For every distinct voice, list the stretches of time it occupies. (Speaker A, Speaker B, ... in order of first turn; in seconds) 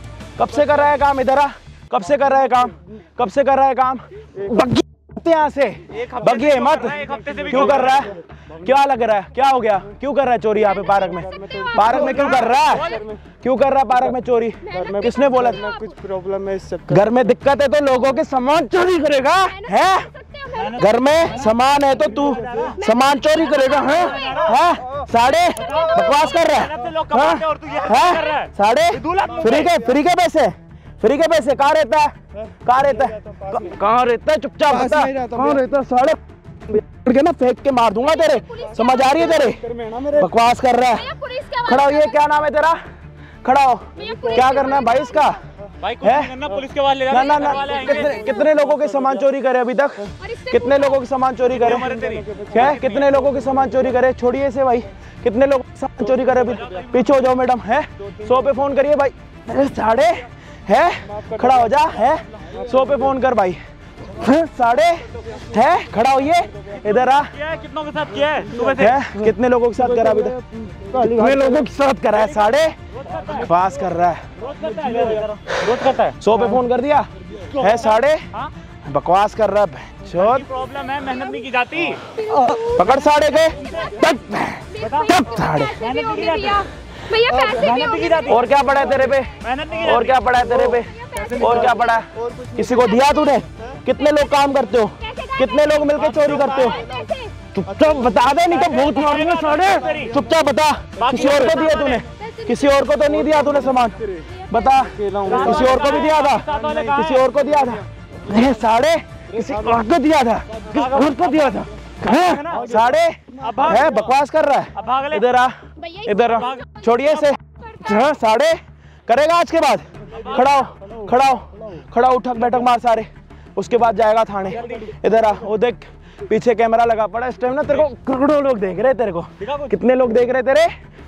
Speaker A: 0.4-15.7, 16.9-20.1, 20.8-32.1, 32.6-36.2, 36.7-41.1, 41.6-42.8, 43.4-45.4, 46.0-46.3, 47.1-52.0, 52.5-67.3, 68.8-70.4, 71.0-72.8, 73.4-74.2, 76.2-78.2, 78.8-80.5, 82.6-85.8, 88.2-96.8, 97.5-130.7
Speaker B: 5.9-8.1, 11.8-13.1, 20.5-22.8, 23.7-24.6, 25.6-29.7, 45.8-49.0, 51.5-53.1, 56.5-57.0, 67.3-69.0, 73.0-73.5, 74.4-76.2, 80.1-82.0, 83.6-83.9, 84.8-85.1, 85.8-86.7, 87.5-88.4, 89.4-90.4, 96.0-96.8, 98.5-100.2, 101.0-102.0, 105.2-107.3, 110.7-112.7, 113.4-113.9, 114.8-115.2, 116.3-117.3, 120.2-120.6, 124.6-124.9, 129.4-129.8
Speaker C: 10.7-11.8, 14.6-16.0, 19.4-20.9, 22.6-24.6, 38.0-39.6, 41.0-42.3, 44.0-45.4, 47.1-48.5, 50.2-51.0, 80.9-81.5, 82.1-84.2, 84.7-88.7, 90.4-92.0, 92.8-93.4, 93.9-94.2, 94.9-97.3, 101.1-106.2, 115.8-116.9, 117.6-118.1
Speaker D: 11.4-11.8, 15.7-17.0, 34.8-35.6, 39.9-40.2, 44.1-44.4, 51.8-52.6, 70.7-71.5, 91.2-91.7, 92.3-92.7, 105.0-105.7